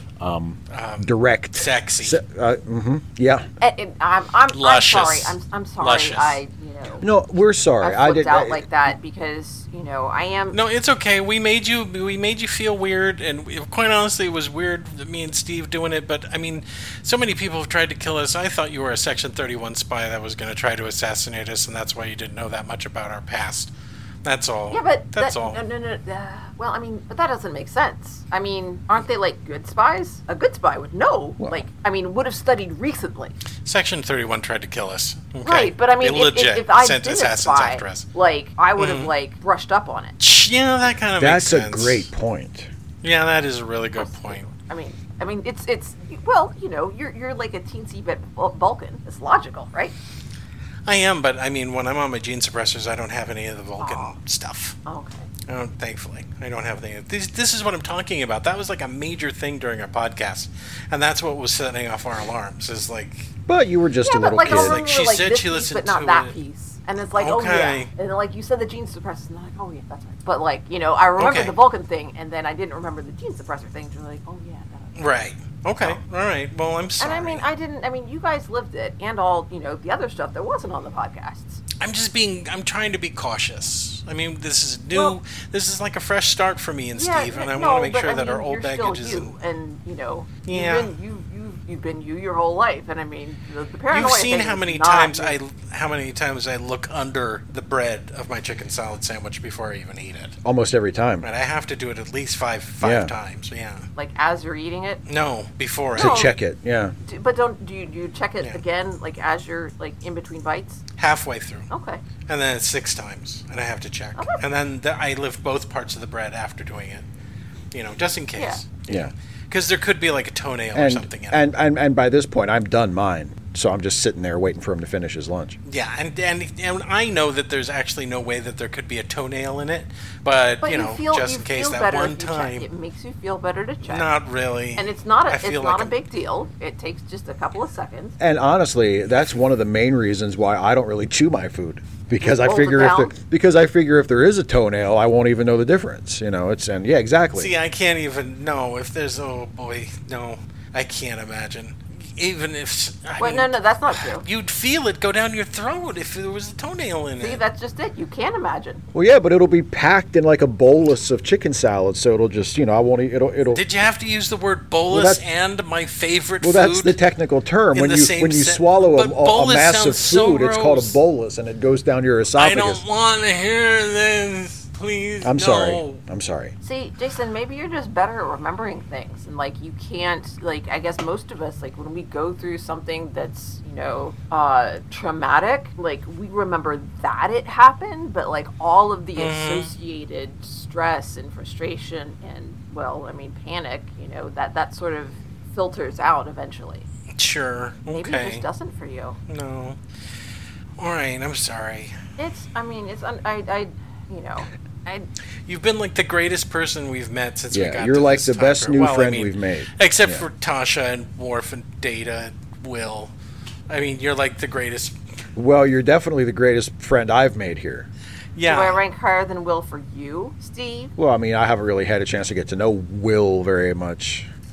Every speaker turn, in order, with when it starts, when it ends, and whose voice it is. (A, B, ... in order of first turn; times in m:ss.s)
0:00.2-0:03.5 A
0:00.7-0:02.2 B
0:03.6-0:07.0 C
0:04.5-0:06.4 B
0:07.0-0:08.6 A
0:07.8-0:10.6 C
0:10.5-0:23.7 B
0:24.2-0:25.6 B
0:24.7-0:33.3 C
0:33.6-0:38.1 B
0:35.4-0:40.2 C
0:38.8-0:39.1 B
0:40.2-0:42.1 B
0:41.2-0:42.7 A
0:43.0-0:44.4 B
0:44.0-0:50.0 C
0:50.8-0:54.8 B
0:53.8-0:54.2 C
0:54.8-0:55.3 C
0:55.5-1:03.3 B
1:03.5-1:04.8 A
1:04.0-1:15.0 C
1:04.4-1:06.3 B
1:07.2-1:07.9 B
1:11.2-1:11.5 B
1:15.0-1:17.4 B
1:17.0-1:21.6 C
1:21.8-1:29.3 B
1:26.9-1:35.4 C
1:30.4-1:30.9 B
1:33.9-1:40.4 B
1:40.4-1:41.2 A
1:41.2-1:43.9 B
1:42.8-1:43.1 A
1:44.0-1:45.0 C
1:45.0-1:46.3 B
1:46.0-1:47.0 A
1:46.0-1:46.3 C
1:47.0-1:50.8 C
1:51.0-1:51.7 B
1:51.7-1:52.0 C
1:52.2-1:57.0 B
1:54.2-1:54.4 C
1:57.7-2:01.4 B
1:58.4-1:58.6 C
1:58.9-1:59.1 A
2:00.7-2:05.6 A
2:05.6-2:12.6 B
2:10.6-2:14.1 C
2:13.8-2:15.9 B
2:14.8-2:18.2 C
2:18.2-2:27.5 A
2:22.2-2:23.1 C
2:27.3-2:37.4 B
2:33.2-2:34.2 C
2:37.2-2:38.8 C
2:38.9-2:43.6 A
2:43.5-2:47.0 B
2:44.9-2:45.2 A
2:46.4-2:52.8 A
2:47.7-2:51.0 B
2:52.4-2:56.0 B
2:55.2-2:56.5 A
2:56.6-3:16.8 C
3:09.2-3:09.7 B
3:17.2-3:18.4 B
3:17.9-3:19.2 C
3:19.3-3:19.8 B
3:20.8-3:22.0 B
3:22.2-3:25.1 C
3:25.5-3:33.1 B
3:27.5-3:30.2 A
3:33.7-3:35.0 B
3:35.4-3:37.9 A
3:38.4-3:38.8 B
3:38.4-3:40.9 C
3:41.0-3:44.3 A